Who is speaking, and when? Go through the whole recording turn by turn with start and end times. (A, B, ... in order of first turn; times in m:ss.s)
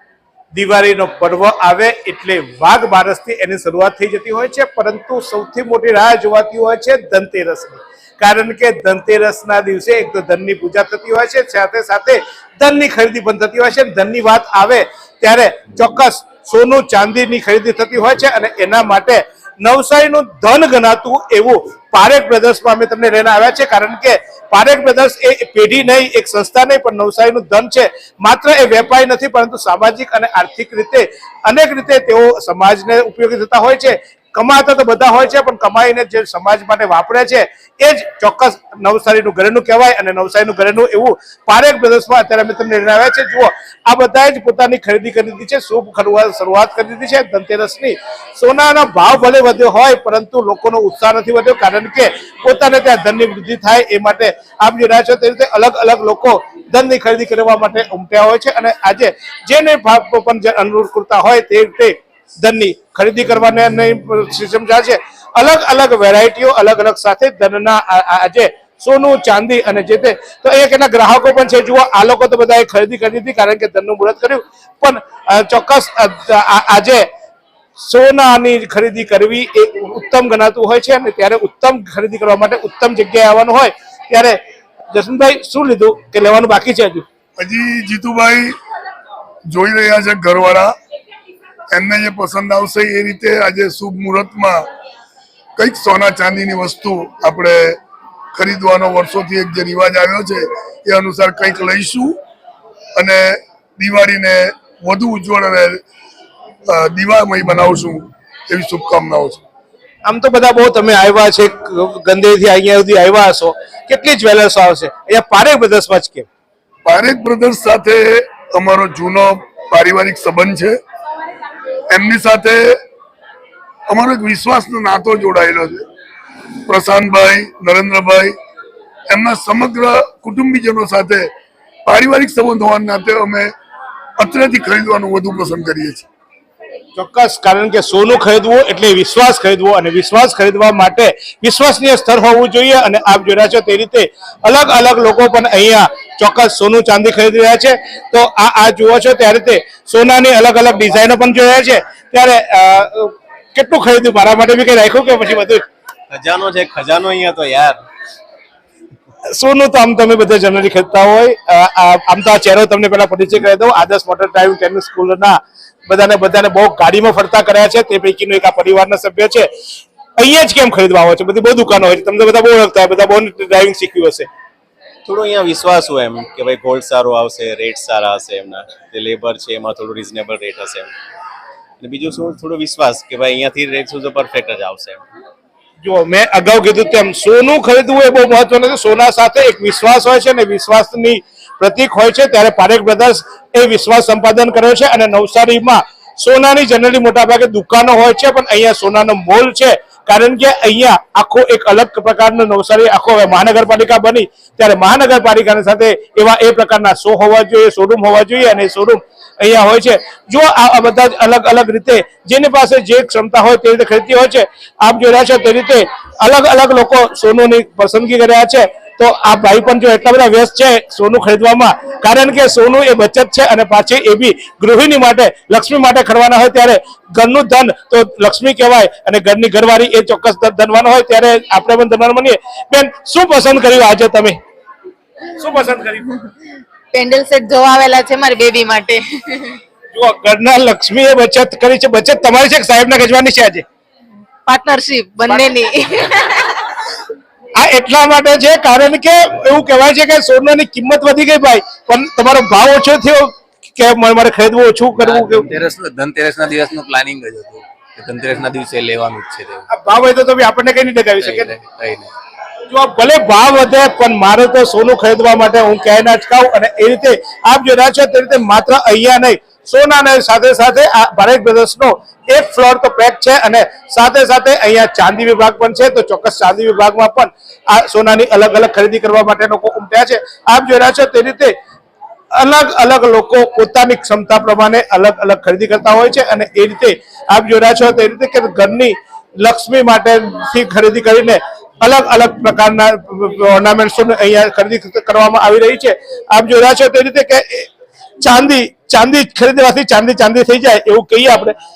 0:00.5-1:17.0 A
1:17.8-1:24.4 A
1:24.9-1:27.0 A
1:27.4-1:28.5 B
1:29.5-1:30.7 B
1:31.7-1:34.6 B
1:35.6-1:37.8 B
1:38.3-1:42.2 B
1:43.0-1:45.8 B
1:46.7-1:49.4 B
1:50.0-1:56.3 A
1:56.8-2:00.8 B
2:01.9-2:02.8 B
2:03.9-2:05.8 B
2:06.7-2:08.3 B
2:09.1-2:11.3 B
2:11.8-2:13.5 B
2:14.2-2:16.1 B
2:17.0-2:35.7 A
2:36.1-2:37.8 C
2:39.3-2:49.5 A
2:50.2-2:54.3 A
2:55.0-3:00.9 C
3:01.8-3:05.0 C
3:05.8-3:54.4 A
3:55.4-3:56.1 A
3:56.9-3:59.6 D
3:59.9-4:03.6 A
4:04.4-4:06.6 D
4:07.6-4:15.5 A
4:15.0-4:19.6 E
4:19.7-4:21.5 A
4:21.2-4:22.1 E
4:22.7-4:41.5 A
4:42.3-4:57.7 A
4:58.2-5:01.5 A